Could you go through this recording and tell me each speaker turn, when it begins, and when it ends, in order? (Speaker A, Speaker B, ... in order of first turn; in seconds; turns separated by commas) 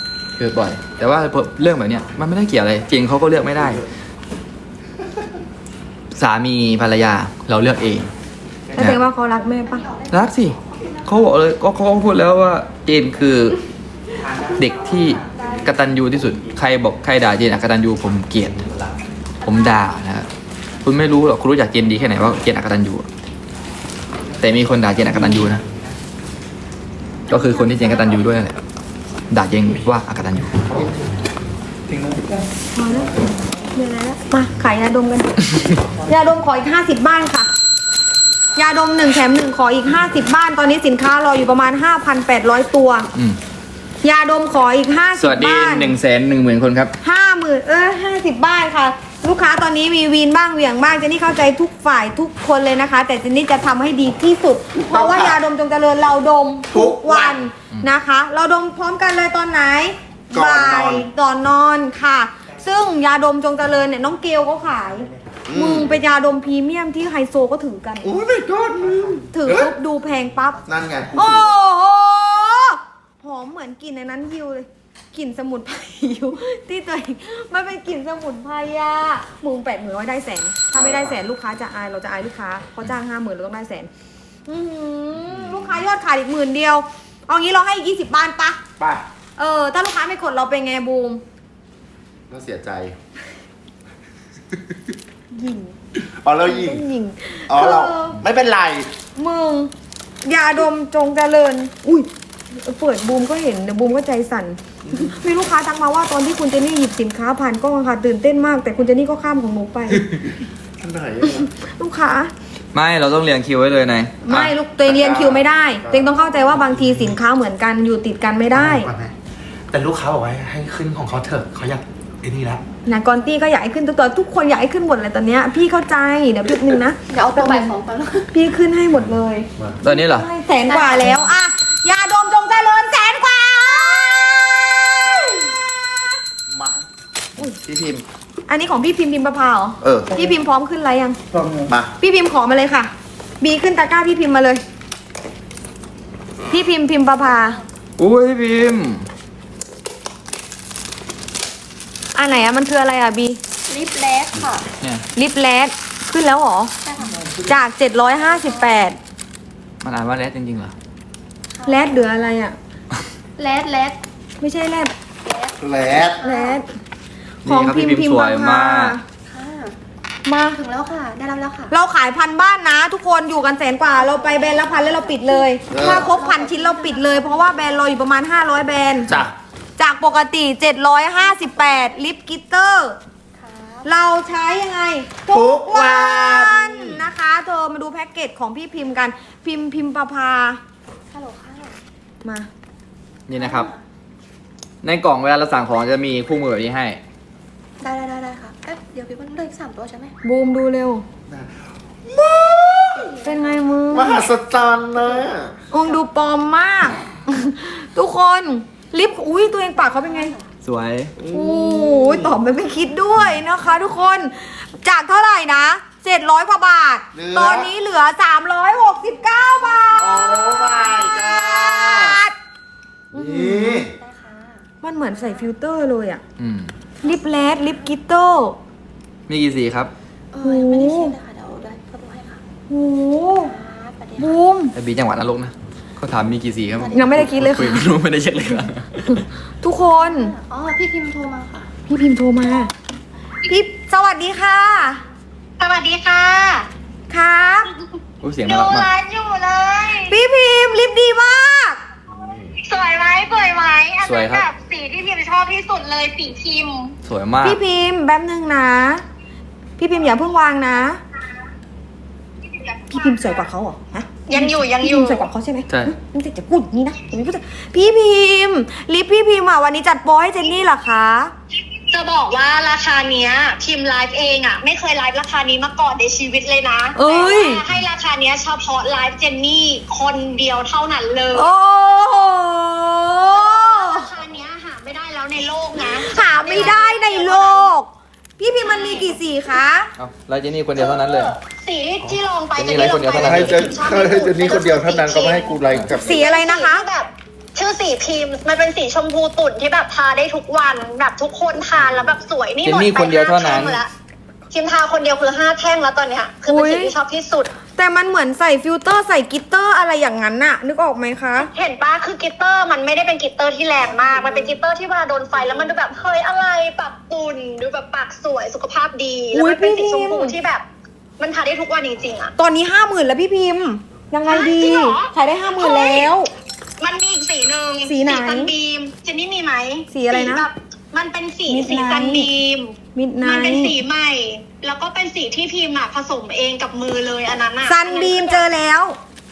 Speaker A: 0.3-3.8, Speaker A: 6.1-8.1, Speaker A: 8.8-9.0, Speaker B: 8.8-9.9, Speaker C: 9.6-11.1, Speaker A: 10.1-13.6, Speaker A: 14.5-18.6, Speaker A: 19.4-20.3, Speaker A: 20.8-23.1, Speaker A: 24.4-25.6, Speaker A: 27.3-28.6, Speaker A: 29.3-30.6, Speaker B: 32.7-35.4, Speaker B: 36.0-37.5, Speaker B: 38.5-43.1, Speaker B: 44.0-46.0, Speaker A: 45.1-46.9, Speaker B: 47.0-68.1, Speaker D: 54.8-55.4, Speaker D: 56.7-57.4, Speaker D: 60.3-61.1, Speaker D: 65.5-65.9, Speaker D: 68.0-69.7, Speaker B: 69.3-70.6, Speaker D: 70.6-71.6, Speaker B: 71.1-83.9, Speaker D: 80.7-81.2, Speaker B: 84.5-88.6, Speaker D: 85.2-85.8, Speaker B: 89.4-91.2, Speaker D: 92.3-93.0, Speaker B: 95.3-95.8, Speaker D: 96.0-96.8, Speaker B: 96.4-98.2, Speaker D: 97.5-98.9, Speaker B: 99.2-99.7, Speaker B: 100.2-110.1, Speaker D: 110.8-111.5, Speaker B: 111.8-112.3, Speaker A: 112.7-114.5, Speaker B: 114.2-118.9, Speaker D: 114.8-116.6, Speaker E: 118.6-119.1, Speaker E: 119.7-122.6, Speaker B: 122.8-127.7, Speaker C: 127.1-128.3, Speaker B: 128.3-135.2, Speaker A: 129.8-130.3, Speaker C: 130.7-131.2, Speaker D: 136.5-136.8, Speaker A: 137.7-138.0, Speaker B: 138.5-141.2, Speaker D: 139.8-140.1, Speaker D: 141.7-141.9, Speaker B: 142.0-144.6, Speaker B: 146.5-147.6, Speaker A: 148.0-149.1, Speaker B: 152.1-153.4, Speaker C: 153.7-154.7, Speaker A: 154.8-155.1, Speaker B: 155.2-156.7, Speaker C: 156.8-157.2, Speaker B: 157.4-159.0, Speaker A: 159.8-160.7, Speaker C: 161.5-161.9, Speaker B: 161.6-162.6, Speaker C: 163.4-164.0, Speaker B: 164.4-164.9, Speaker C: 165.2-166.6, Speaker D: 165.6-166.2, Speaker B: 166.2-166.7, Speaker A: 167.4-169.0, Speaker B: 167.4-169.0, Speaker C: 169.3-169.8, Speaker B: 170.2-170.6, Speaker C: 170.5-171.7, Speaker B: 171.7-179.1, Speaker C: 173.9-177.7, Speaker D: 175.7-176.1, Speaker B: 179.8-183.0, Speaker C: 181.3-181.8, Speaker C: 183.4-183.9, Speaker B: 183.8-190.6, Speaker D: 185.3-187.0, Speaker C: 191.1-191.8, Speaker B: 192.2-192.5, Speaker A: 193.3-193.7, Speaker C: 193.3-193.8, Speaker A: 194.8-197.0, Speaker C: 197.8-200.1, Speaker B: 200.2-201.0, Speaker D: 201.3-203.2, Speaker C: 203.0-203.6, Speaker B: 203.2-204.3, Speaker D: 203.9-205.6, Speaker B: 205.7-210.3, Speaker C: 205.7-206.0, Speaker C: 209.8-210.4, Speaker A: 210.6-211.1, Speaker D: 211.2-212.4, Speaker B: 211.3-222.3, Speaker D: 217.1-217.7, Speaker D: 220.0-222.2, Speaker B: 223.1-223.9, Speaker D: 223.1-223.9, Speaker C: 223.9-224.6, Speaker B: 224.8-226.2, Speaker A: 226.4-226.7, Speaker B: 227.0-228.6, Speaker C: 227.0-227.8, Speaker A: 229.3-229.9, Speaker C: 230.3-232.4, Speaker B: 230.4-231.2, Speaker B: 232.7-233.5, Speaker C: 233.3-234.4, Speaker B: 234.2-234.7, Speaker A: 234.7-239.2, Speaker B: 236.9-237.9, Speaker B: 239.1-240.3, Speaker C: 239.9-241.7, Speaker B: 241.9-242.7, Speaker B: 243.5-245.0, Speaker F: 245.6-246.7, Speaker B: 247.1-247.7, Speaker A: 248.2-248.9, Speaker F: 248.4-250.2, Speaker B: 250.1-251.8, Speaker D: 252.1-252.6, Speaker F: 252.6-256.9, Speaker A: 254.0-254.5, Speaker A: 257.0-257.6, Speaker B: 257.4-259.0, Speaker B: 259.8-261.0, Speaker F: 262.5-263.3, Speaker B: 262.9-271.3, Speaker F: 264.3-265.3, Speaker A: 265.7-265.9, Speaker F: 271.9-281.5, Speaker B: 276.9-277.6, Speaker B: 281.3-284.1, Speaker F: 283.3-287.7, Speaker B: 286.0-289.9, Speaker F: 288.6-289.2, Speaker A: 290.0-291.3, Speaker F: 290.8-303.9, Speaker A: 292.5-293.7, Speaker D: 293.2-296.2, Speaker B: 295.9-296.9, Speaker A: 302.6-303.8, Speaker F: 304.5-307.5, Speaker B: 306.5-306.9, Speaker B: 307.8-311.5, Speaker F: 311.4-320.6, Speaker B: 319.3-320.4, Speaker F: 321.2-322.3, Speaker B: 322.4-326.3, Speaker F: 324.3-326.1, Speaker F: 326.8-338.5, Speaker B: 327.8-328.5, Speaker B: 329.9-330.5, Speaker B: 331.5-332.3, Speaker B: 332.9-333.7, Speaker B: 337.6-339.0